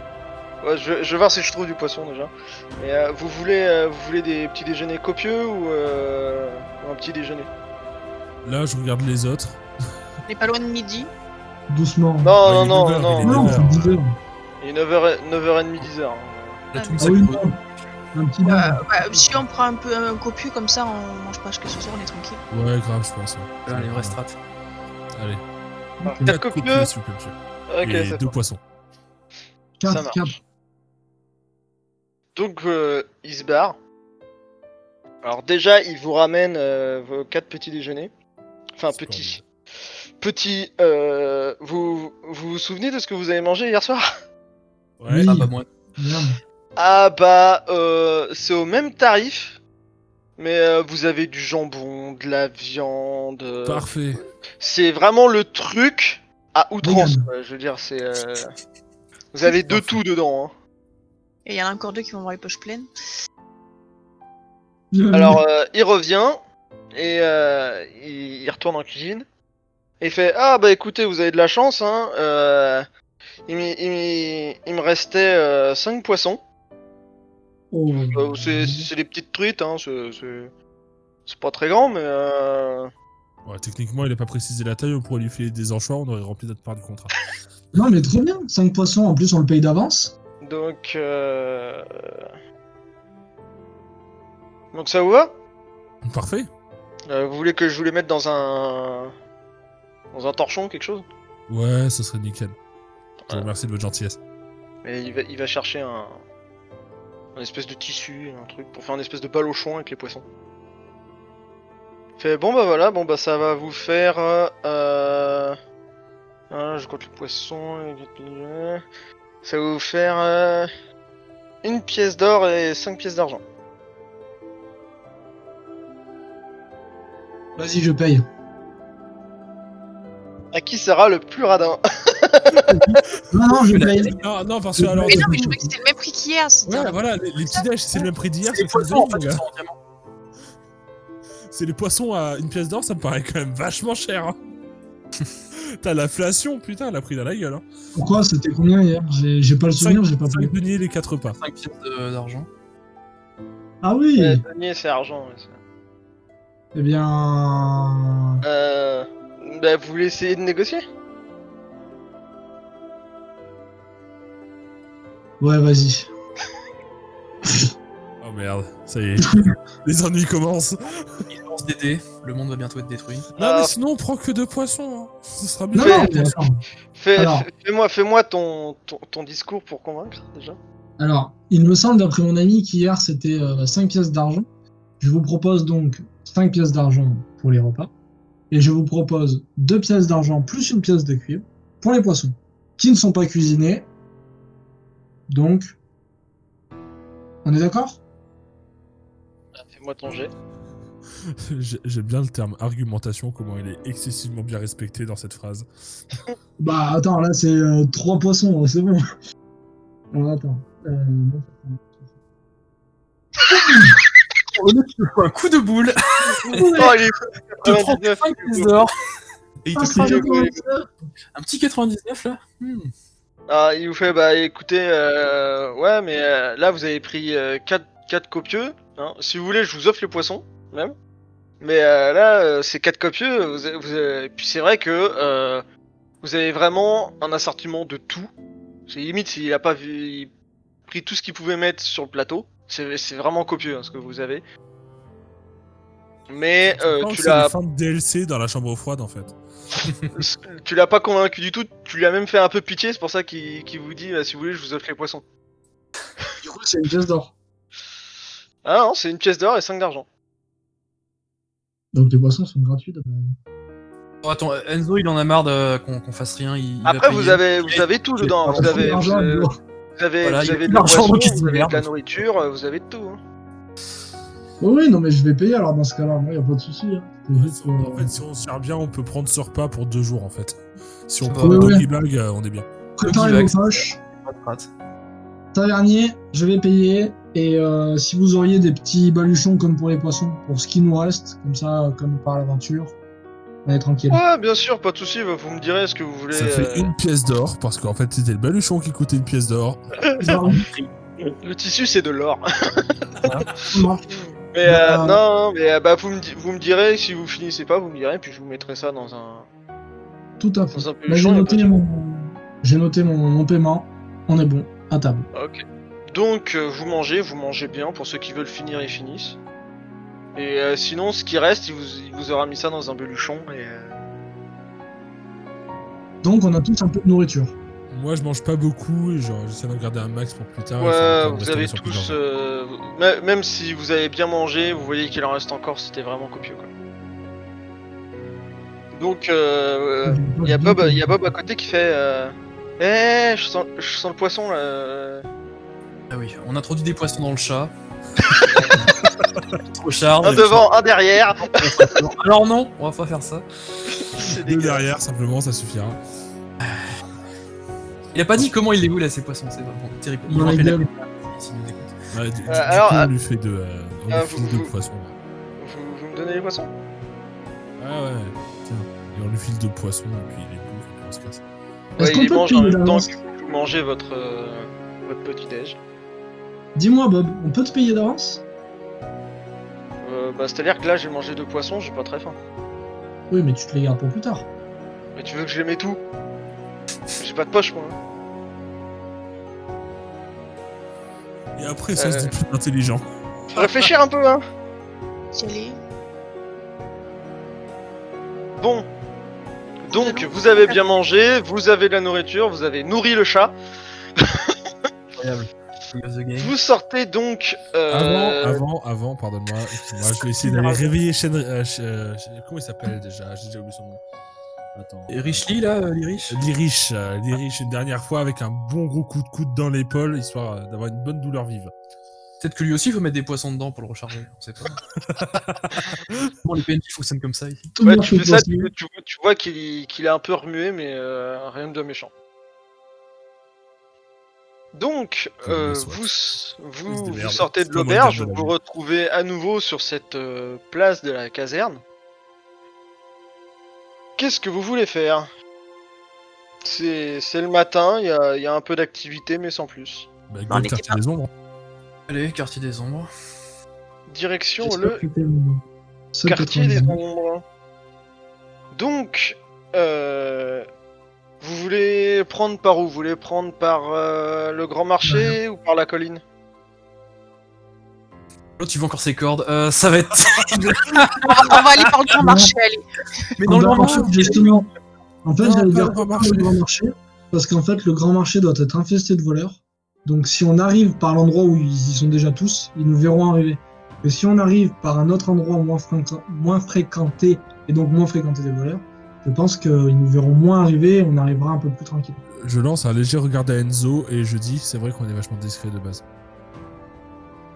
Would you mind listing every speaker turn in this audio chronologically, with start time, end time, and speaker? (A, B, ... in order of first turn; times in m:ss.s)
0:00.6-0:07.5 A
0:08.4-0:09.6 B
0:10.3-0:11.1 C
0:11.7-0:12.4 D
0:12.2-0:13.6 A
0:12.4-0:14.0 B
0:13.2-0:14.2 D
0:14.6-0:16.6 A
0:16.7-0:18.0 E
0:16.8-0:17.3 C
0:17.0-0:17.6 D
0:18.1-0:19.4 D
0:18.4-0:22.4 C
0:22.5-0:24.2 B
0:23.7-0:24.4 E
0:25.2-0:25.4 B
0:26.0-0:26.3 D
0:26.0-0:26.9 A
0:26.3-0:28.6 B
0:27.7-0:28.3 A
0:29.8-0:30.4 D
0:29.8-0:30.4 A
0:32.4-0:33.8 A
0:35.2-0:38.1 A
0:38.8-0:39.4 A
0:38.9-0:39.4 B
0:40.2-0:44.1 A
0:45.0-0:45.3 B
0:45.1-0:46.4 D
0:45.3-0:45.7 E
0:46.8-0:49.6 A
0:50.4-0:54.0 A
0:53.6-0:54.2 B
0:54.6-0:58.5 A
0:56.8-0:57.3 D
0:59.3-1:00.5 A
0:59.5-1:00.0 B
1:01.4-1:02.9 C
1:04.9-1:05.4 D
1:05.1-1:06.4 A
1:06.9-1:09.2 A
1:10.0-1:12.9 A
1:13.5-1:16.4 A
1:17.7-1:18.9 D
1:17.9-1:20.5 A
1:21.3-1:22.9 A
1:23.5-1:27.1 B
1:27.7-1:30.1 D
1:30.4-1:32.3 A
1:34.7-1:35.4 A
1:36.0-1:36.5 B
1:37.1-1:39.1 A
1:40.1-1:41.1 A
1:41.5-1:42.6 B
1:43.3-1:44.2 B
1:44.8-1:46.2 A
1:47.4-1:50.2 A
1:52.2-1:55.6 A
1:56.5-1:58.8 A
1:59.4-2:00.7 A
2:01.6-2:03.4 A
2:07.6-2:08.3 D
2:10.5-2:12.9 A
2:13.3-2:14.2 D
2:13.5-2:14.1 E
2:14.0-2:15.4 B
2:14.8-2:15.7 D
2:15.1-2:17.7 C
2:16.7-2:19.4 B
2:18.4-2:19.8 E
2:21.5-2:24.4 B
2:25.8-2:27.6 B
2:28.0-2:30.5 D
2:29.8-2:31.4 B
2:31.4-2:32.5 E
2:33.8-2:34.4 D
2:34.2-2:35.6 A
2:36.7-2:38.4 D
2:38.4-2:40.8 A
2:45.4-2:46.1 D
2:48.2-2:51.2 B
2:49.2-2:49.5 D
2:51.3-2:53.3 E
2:53.4-2:53.7 A
2:53.4-2:56.4 B
2:55.7-2:56.6 D
2:55.8-2:56.3 A
2:56.9-3:00.6 A
2:57.2-2:57.5 D
3:01.0-3:04.5 D
3:05.0-3:07.9 D
3:08.5-3:13.9 D
3:15.3-3:15.8 D
3:17.4-3:18.0 D
3:19.6-3:20.3 A
3:21.4-3:25.7 B
3:26.6-3:29.0 D
3:30.1-3:32.0 D
3:33.5-3:34.0 D
3:34.5-3:36.7 E
3:36.5-3:37.0 D
3:36.8-3:38.7 A
3:37.6-3:38.9 E
3:39.6-3:40.4 E
3:39.8-3:40.9 D
3:39.9-3:40.6 A
3:41.4-3:42.9 E
3:43.5-3:51.0 A
3:51.6-3:55.6 A
3:56.2-3:58.3 A
3:58.9-4:00.3 A
4:00.9-4:04.4 A
4:06.3-4:07.5 A
4:06.8-4:09.4 B
4:10.1-4:15.2 A
4:16.4-4:17.3 D
4:18.6-4:20.1 A
4:21.9-4:23.4 D
4:24.2-4:29.0 E
4:26.8-4:33.2 A
4:28.5-4:29.6 D
4:30.2-4:31.9 E
4:34.6-4:38.1 D
4:37.4-4:42.7 B
4:41.2-4:41.8 E
4:41.4-4:41.9 D
4:43.0-4:44.0 D
4:43.0-4:44.7 E
4:45.5-4:53.0 D
4:53.6-4:54.2 D
4:54.1-4:56.9 A
4:56.3-4:59.8 B
5:00.1-5:00.4 A
5:00.2-5:00.7 D
5:00.5-5:00.9 E
5:01.4-5:03.5 A
5:03.7-5:04.1 D
5:04.5-5:09.5 A
5:04.6-5:05.2 D
5:10.4-5:15.3 D
5:10.7-5:11.7 A
5:15.3-5:19.4 A
5:20.4-5:24.0 A
5:26.2-5:27.6 D
5:27.9-5:32.2 B
5:30.8-5:36.7 A
5:38.9-5:45.2 A
5:40.0-5:41.3 D
5:46.1-5:47.7 E
5:48.4-5:48.9 A
5:48.6-5:49.0 E
5:49.2-5:49.5 B
5:49.7-5:50.7 E
5:50.2-5:51.9 A
5:51.4-5:53.8 E
5:54.0-5:54.9 A
5:54.3-5:56.0 B
5:56.6-5:57.0 E
5:58.1-6:02.0 E
6:00.3-6:00.9 D
6:02.1-6:05.2 B
6:02.5-6:03.1 A
6:04.1-6:04.7 A
6:05.6-6:06.7 A
6:07.8-6:11.4 B
6:12.0-6:13.1 D
6:12.0-6:15.8 A
6:16.8-6:18.4 D
6:20.0-6:22.4 A
6:23.3-6:24.5 D
6:25.2-6:26.0 A
6:27.2-6:28.0 A
6:31.6-6:33.9 B
6:32.0-6:32.3 A
6:33.6-6:34.4 A
6:35.3-6:35.8 C
6:38.6-6:38.9 A
6:39.8-6:43.6 A
6:39.9-6:40.8 C
6:44.2-6:44.6 A
6:45.2-6:46.5 E
6:46.4-6:48.6 A
6:47.9-6:54.0 B
6:50.4-6:50.9 A
6:54.8-6:55.6 B
6:55.1-6:56.4 E
6:56.3-7:01.7 B
7:02.4-7:04.8 E
7:05.0-7:06.3 B
7:06.4-7:07.7 E
7:07.8-7:08.7 D
7:07.8-7:12.1 A
7:14.7-7:21.8 A
7:15.4-7:16.1 B
7:16.9-7:18.5 B
7:24.2-7:25.3 A
7:26.6-7:30.1 A
7:30.3-7:31.3 B
7:30.5-7:31.0 C
7:32.1-7:33.1 E
7:34.1-7:35.0 A
7:34.6-7:37.0 D
7:36.2-7:37.4 A
7:38.7-7:40.7 A
7:41.4-7:46.2 A
7:48.6-7:51.6 E
7:51.2-7:52.8 C
7:52.2-7:52.5 D
7:53.4-7:54.6 E
7:53.5-7:54.7 D
7:53.7-7:54.3 B
7:55.2-8:12.2 D
7:55.4-7:56.6 B
8:12.4-8:16.0 B